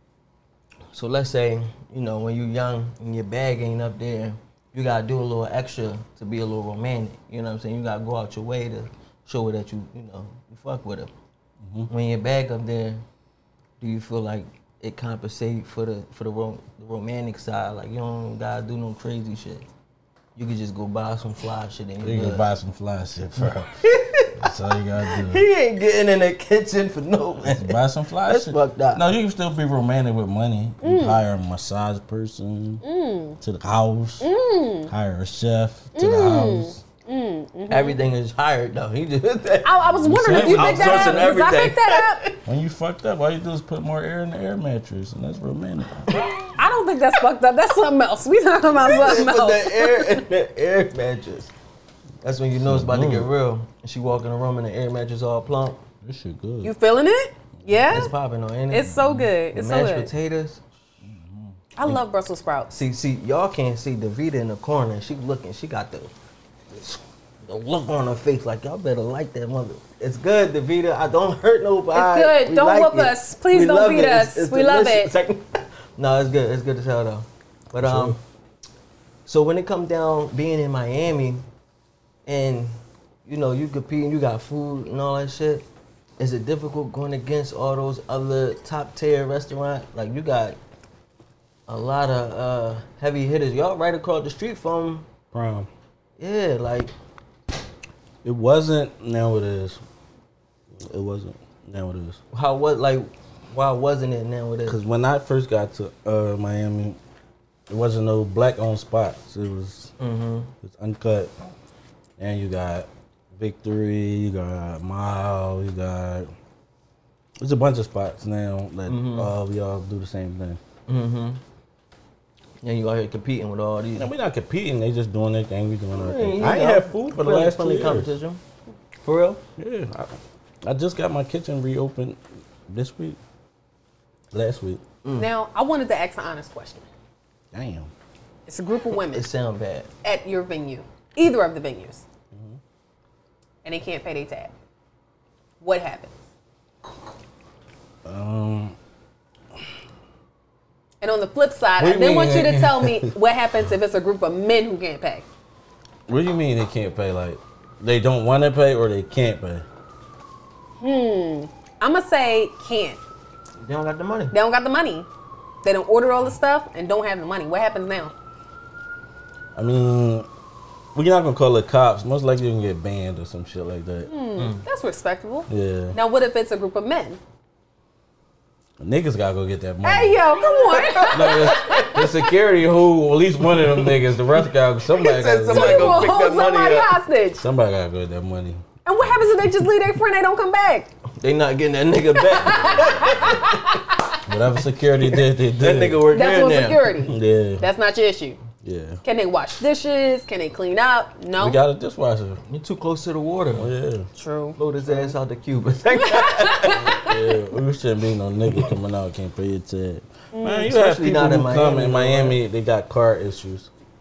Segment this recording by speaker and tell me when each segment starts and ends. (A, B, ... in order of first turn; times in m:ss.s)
0:00.9-0:11.1 A
0:11.6-0:11.9 B
0:11.9-0:13.0 A
0:13.8-0:19.6 A
0:20.4-0:22.4 A
0:22.0-0:25.4 B
0:23.8-0:24.5 A
0:25.1-0:29.0 A
0:27.4-0:32.8 B
0:30.8-0:31.2 C
0:32.8-0:33.4 C
0:33.4-0:34.3 B
0:34.2-0:34.9 C
0:34.9-0:36.8 B
0:35.9-0:38.0 C
0:37.7-0:42.4 A
0:39.6-0:42.3 C
0:40.0-0:41.4 B
0:42.4-0:46.3 B
0:46.5-0:50.2 C
0:48.8-0:51.5 A
0:52.2-0:55.8 A
0:52.6-0:53.3 B
0:56.0-0:56.7 B
0:56.6-0:58.1 C
0:57.6-0:58.0 B
0:57.9-0:59.0 A
0:58.7-1:00.1 C
0:59.5-1:00.6 A
1:01.0-1:01.6 B
1:01.8-1:02.7 C
1:02.7-1:06.1 A
1:06.7-1:18.2 A
1:11.9-1:15.1 C
1:17.8-1:18.2 B
1:19.2-1:21.4 A
1:22.2-1:25.6 A
1:26.2-1:30.6 A
1:31.7-1:35.1 A
1:35.3-1:35.7 B
1:36.2-1:36.9 A
1:38.2-1:39.8 B
1:40.7-1:42.2 B
1:42.3-1:44.8 A
1:44.7-1:47.0 B
1:47.7-1:49.9 B
1:50.0-1:50.5 A
1:50.6-1:51.3 B
1:52.2-1:56.3 B
1:57.4-2:00.6 B
1:58.9-1:59.3 A
2:00.9-2:01.4 A
2:02.6-2:04.1 A
2:04.0-2:08.1 B
2:05.9-2:08.4 A
2:09.0-2:09.4 A
2:09.6-2:13.2 B
2:14.3-2:14.8 B
2:15.0-2:15.3 A
2:15.2-2:16.8 C
2:17.5-2:17.9 B
2:18.5-2:19.3 C
2:19.1-2:19.9 A
2:20.0-2:22.0 C
2:22.3-2:22.6 B
2:23.6-2:24.5 C
2:25.6-2:26.1 C
2:28.0-2:28.8 B
2:31.0-2:35.2 C
2:31.8-2:33.1 B
2:36.1-2:39.6 B
2:40.8-2:43.0 C
2:43.6-2:44.3 A
2:44.3-2:45.1 C
2:45.6-2:48.1 C
2:49.5-2:50.3 B
2:50.9-2:54.1 B
2:54.1-2:57.2 C
2:54.4-2:54.6 A
2:55.5-2:56.0 B
2:58.8-3:00.2 B
2:59.8-3:01.9 C
3:00.4-3:02.0 A
3:01.1-3:06.2 B
3:03.5-3:04.0 A
3:05.0-3:07.0 A
3:05.4-3:07.4 C
3:07.4-3:09.3 B
3:08.8-3:10.9 C
3:11.2-3:13.8 A
3:12.1-3:14.2 C
3:14.2-3:16.0 B
3:15.0-3:16.9 A
3:16.1-3:18.4 C
3:17.0-3:17.7 B
3:18.6-3:19.0 B
3:19.0-3:21.6 C
3:21.4-3:22.4 B
3:22.5-3:23.7 A
3:23.6-3:24.1 B
3:24.1-3:24.6 C
3:24.6-3:26.8 A
3:26.0-3:27.2 C
3:26.7-3:33.7 B
3:30.3-3:30.7 C
3:30.6-3:32.4 A